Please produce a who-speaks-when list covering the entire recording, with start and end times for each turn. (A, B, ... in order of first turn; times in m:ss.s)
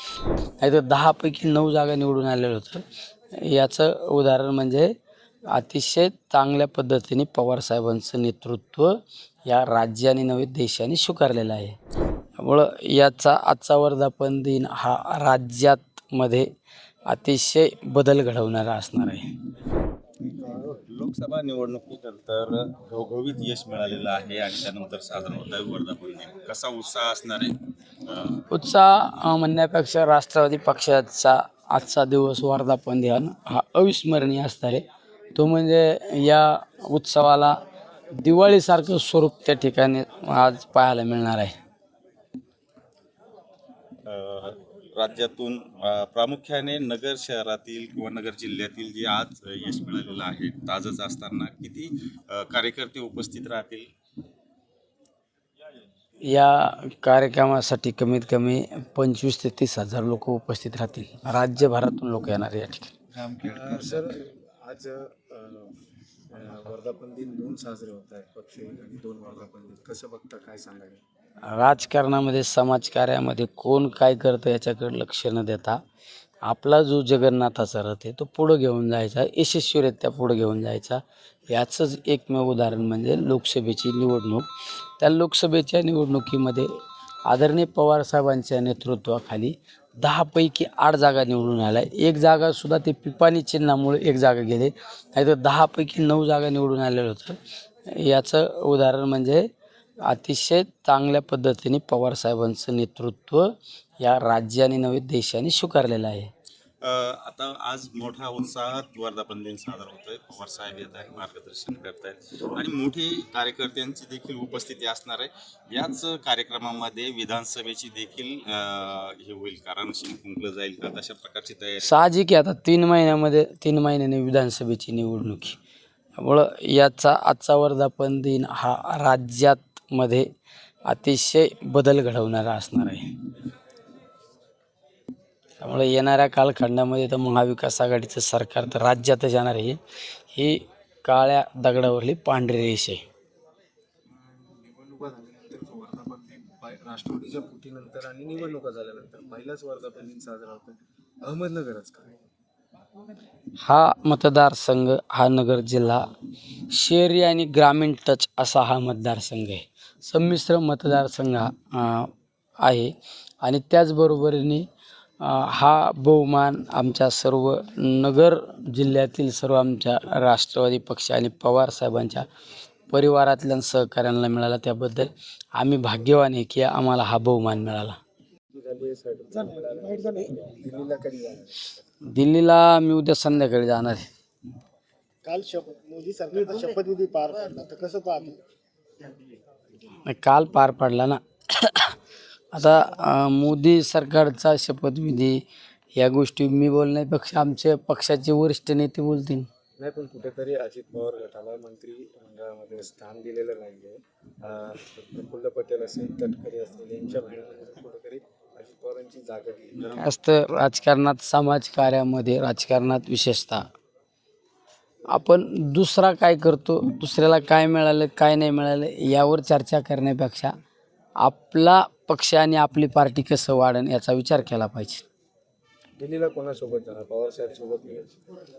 0:00.6-0:02.8 A
0:03.3-0:04.9 A
0:05.5-0:11.8 A
0:12.4-0:16.5 A
0:17.1-0:19.3 A
0:20.3-0:20.8 B
0:20.9-0:28.5 C
0:28.5-0:37.6 A
0:38.1-0:41.6 A
0:44.0-0:53.9 C
0:56.2-1:02.9 A
1:03.4-1:05.7 B
1:06.3-1:11.0 B
1:11.4-1:15.8 A
1:16.4-1:24.5 A
1:25.0-1:26.7 A
1:27.3-1:39.4 A
1:40.0-1:46.3 A
1:46.8-2:02.0 C
2:01.8-2:05.6 A
2:06.2-2:10.3 A
2:10.8-2:13.1 A
2:15.6-2:19.8 A
2:20.3-2:23.0 A
2:24.2-2:32.2 B
2:33.6-2:36.0 A
2:36.7-2:42.1 A
2:42.6-2:44.7 A
2:45.2-2:52.2 A
2:52.9-2:58.0 A
2:58.5-3:01.8 B
3:02.0-3:04.1 A
3:05.3-3:08.4 D
3:09.9-3:12.0 A
3:12.5-3:15.4 A
3:16.0-3:19.5 A
3:19.8-3:30.0 B
3:29.9-3:33.7 A
3:35.1-3:40.5 A
3:41.2-3:45.0 A
3:46.0-3:48.2 B